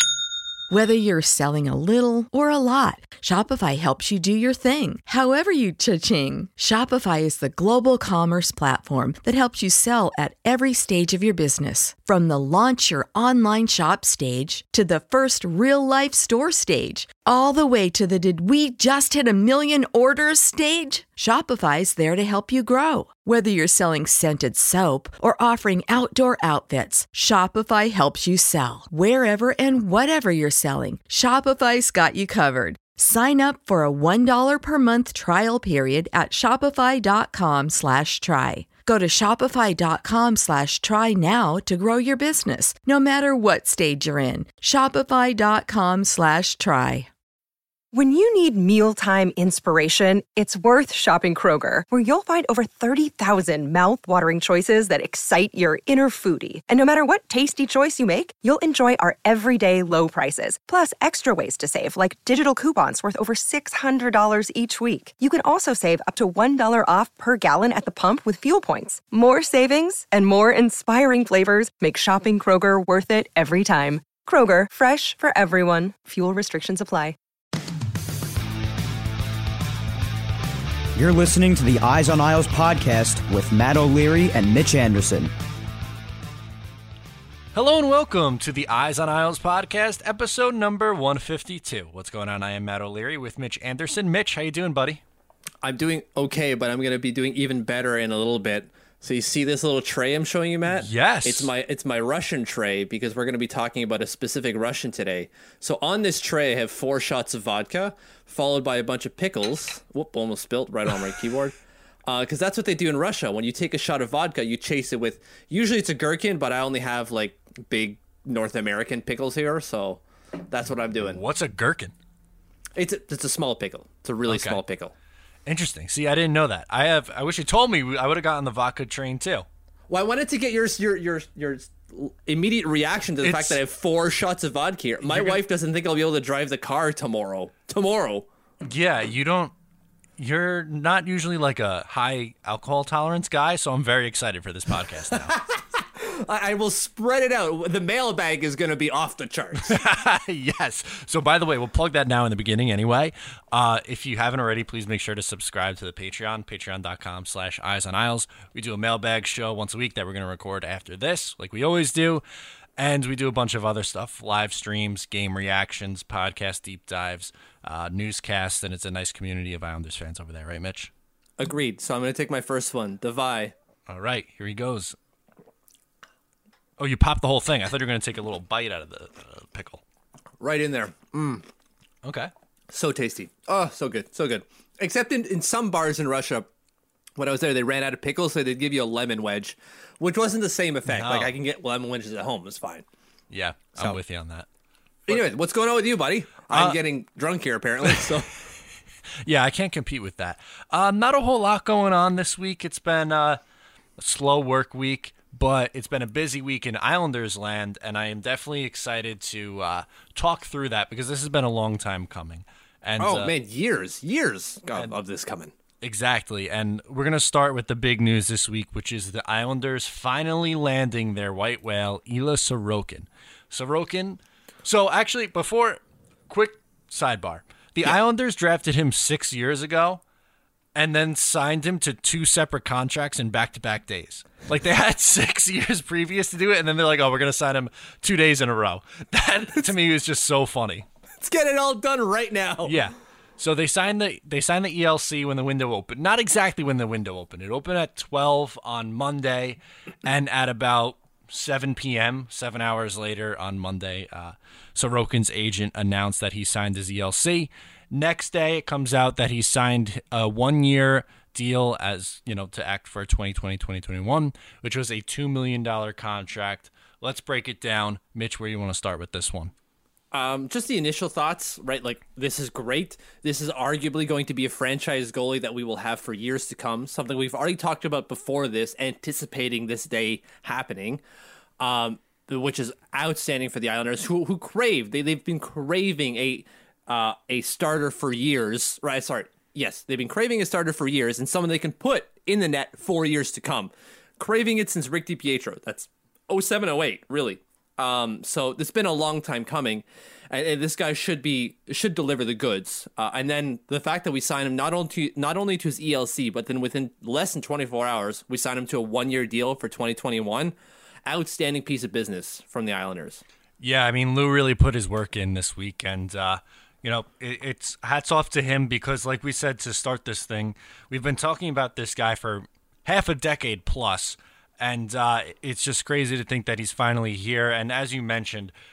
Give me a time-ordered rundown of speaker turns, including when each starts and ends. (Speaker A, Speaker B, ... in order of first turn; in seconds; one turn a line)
Speaker A: 0.7-47.1
Speaker B: 47.9-77.2
Speaker C: 81.0-85.3
Speaker D: 87.5-95.0
Speaker E: 95.6-121.2
Speaker D: 100.7-101.5
Speaker D: 121.1-121.9
Speaker E: 122.7-124.9
Speaker D: 124.3-124.6
Speaker D: 125.5-129.4
Speaker E: 129.9-138.3
Speaker D: 133.2-133.6
Speaker D: 135.0-135.4
Speaker D: 138.6-139.5
Speaker D: 140.2-145.4
Speaker E: 145.1-149.8
Speaker D: 149.6-162.2
Speaker D: 162.8-170.9
Speaker E: 171.4-173.5
Speaker D: 173.9-174.9
Speaker D: 176.8-179.8
Speaker E: 180.4-181.4
Speaker D: 182.0-182.3
Speaker E: 182.7-186.5
Speaker E: 187.2-192.8
Speaker D: 190.9-191.3
Speaker D: 193.3-194.5
Speaker E: 195.1-198.3
Speaker D: 196.5-196.8
Speaker D: 199.2-203.4
Speaker D: 204.0-213.3
Speaker E: 213.0-215.5
Speaker D: 215.8-230.0
Speaker D: 230.7-240.9
Speaker E: 241.2-242.8
Speaker D: 242.6-269.5
Speaker E: 270.1-281.0
Speaker E: 281.6-313.2
Speaker D: 313.6-328.5